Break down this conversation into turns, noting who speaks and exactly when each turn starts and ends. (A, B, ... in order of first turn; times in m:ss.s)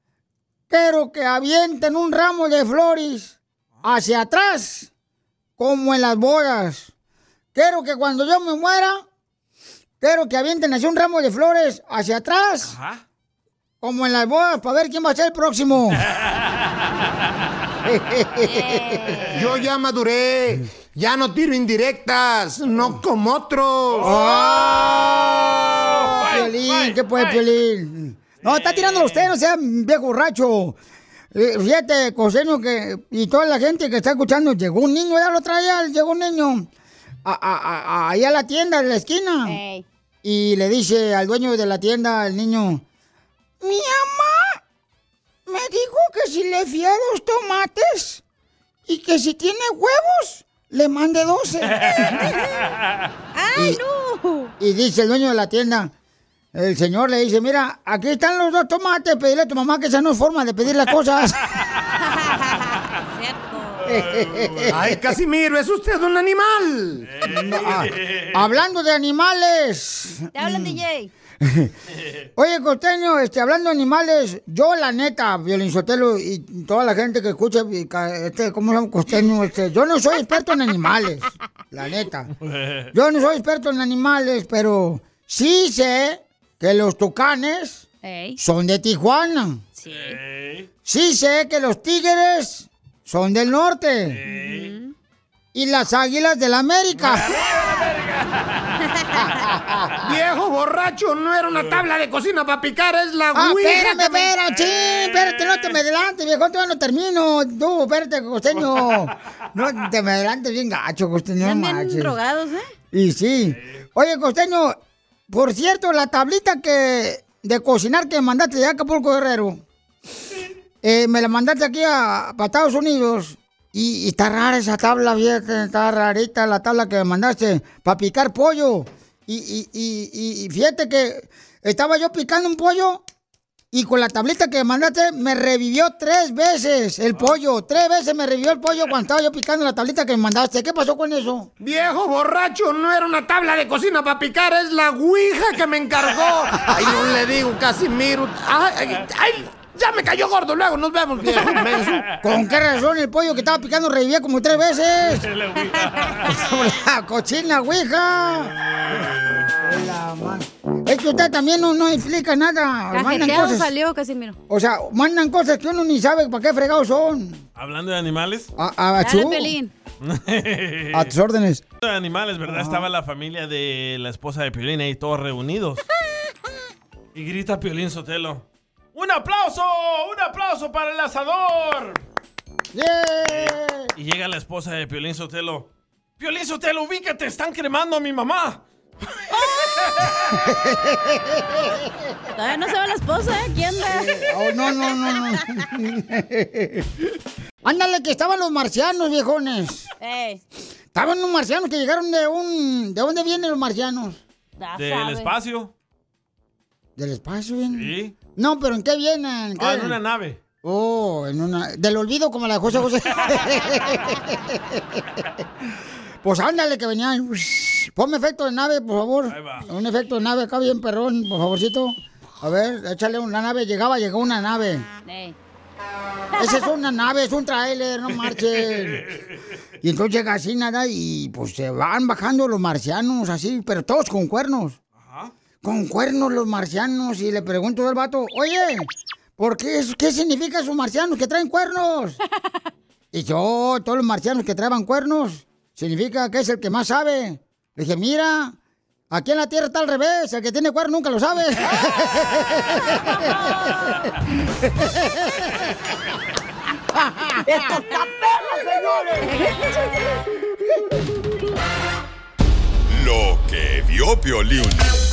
0:00.7-0:04.9 A
0:05.6-0:06.9 A
0:07.5-0:09.0 A
0:10.0-0:12.8 A
0:12.7-0:13.0 B
0:13.8-0:16.0 A
0:16.1-0:16.7 B
0:17.8-0:19.2 A
0:18.5-0:19.5 C
0:19.3-0:24.1 D
0:23.9-0:24.7 B
0:24.0-0:30.8 A
0:25.8-0:27.4 B
0:28.4-0:29.3 B
0:31.3-0:36.7 A
0:37.2-0:39.6 A
0:39.4-0:39.8 C
0:40.2-0:42.8 A
0:43.6-0:44.6 A
0:45.4-0:48.2 A
0:48.9-0:51.9 A
0:52.2-0:52.5 C
0:53.3-0:54.5 C
0:53.5-0:53.8 A
0:54.6-0:55.9 A
0:56.5-1:01.4 A
1:02.0-1:03.9 C
1:03.8-1:04.7 B
1:03.8-1:05.2 A
1:04.8-1:07.0 D
1:07.0-1:08.5 B
1:07.2-1:10.8 A
1:10.3-1:11.1 C
1:11.4-1:11.7 A
1:12.4-1:22.3 A
1:22.4-1:22.9 B
1:22.9-1:27.8 A
1:28.0-1:28.4 C
1:28.4-1:29.6 A
1:29.8-1:30.2 C
1:29.8-1:30.7 B
1:30.8-1:34.2 A
1:34.1-1:34.7 B
1:34.3-1:34.9 C
1:35.5-1:37.3 A
1:37.0-1:38.8 B
1:39.1-1:40.0 A
1:40.0-1:44.3 D
1:41.5-1:41.8 B
1:43.3-1:52.2 A
1:44.5-1:45.6 B
1:48.8-1:49.1 B
1:51.4-1:52.7 C
1:52.9-1:54.8 A
1:55.3-1:59.6 A
2:00.8-2:13.0 A
2:13.7-2:21.5 A
2:21.6-2:32.0 D
2:31.2-2:32.2 B
2:32.2-2:35.3 A
2:35.1-2:36.4 B
2:36.2-2:38.5 A
2:38.6-2:39.5 B
2:39.6-2:43.7 A
2:42.9-2:44.4 C
2:44.5-2:47.4 A
2:47.6-2:48.5 B
2:48.6-2:49.5 A
2:49.0-2:49.7 C
2:50.0-2:51.1 B
2:50.9-2:51.6 A
2:51.8-2:55.8 B
2:52.4-2:52.8 A
2:57.1-3:02.0 B
3:02.7-3:03.9 A
3:03.3-3:05.7 B
3:06.2-3:08.6 B
3:10.3-3:11.8 A
3:12.3-3:14.2 C
3:13.9-3:16.9 A
3:17.6-3:19.9 A
3:20.0-3:20.4 C
3:20.9-3:24.2 A
3:24.6-3:25.3 C
3:24.7-3:25.7 B
3:27.0-3:30.0 A
3:27.7-3:28.1 B
3:29.6-3:30.4 B
3:30.6-3:35.0 A
3:36.2-3:44.8 A
3:39.3-3:39.6 B
3:45.0-3:45.3 C
3:46.4-3:49.0 A
3:48.5-3:49.2 B
3:49.8-3:54.8 A
3:55.0-3:55.3 B
3:55.6-4:02.2 A
4:03.1-4:08.6 A
4:09.1-4:13.7 A
4:14.8-4:15.4 A
4:16.9-4:17.7 A
4:22.9-4:24.9 E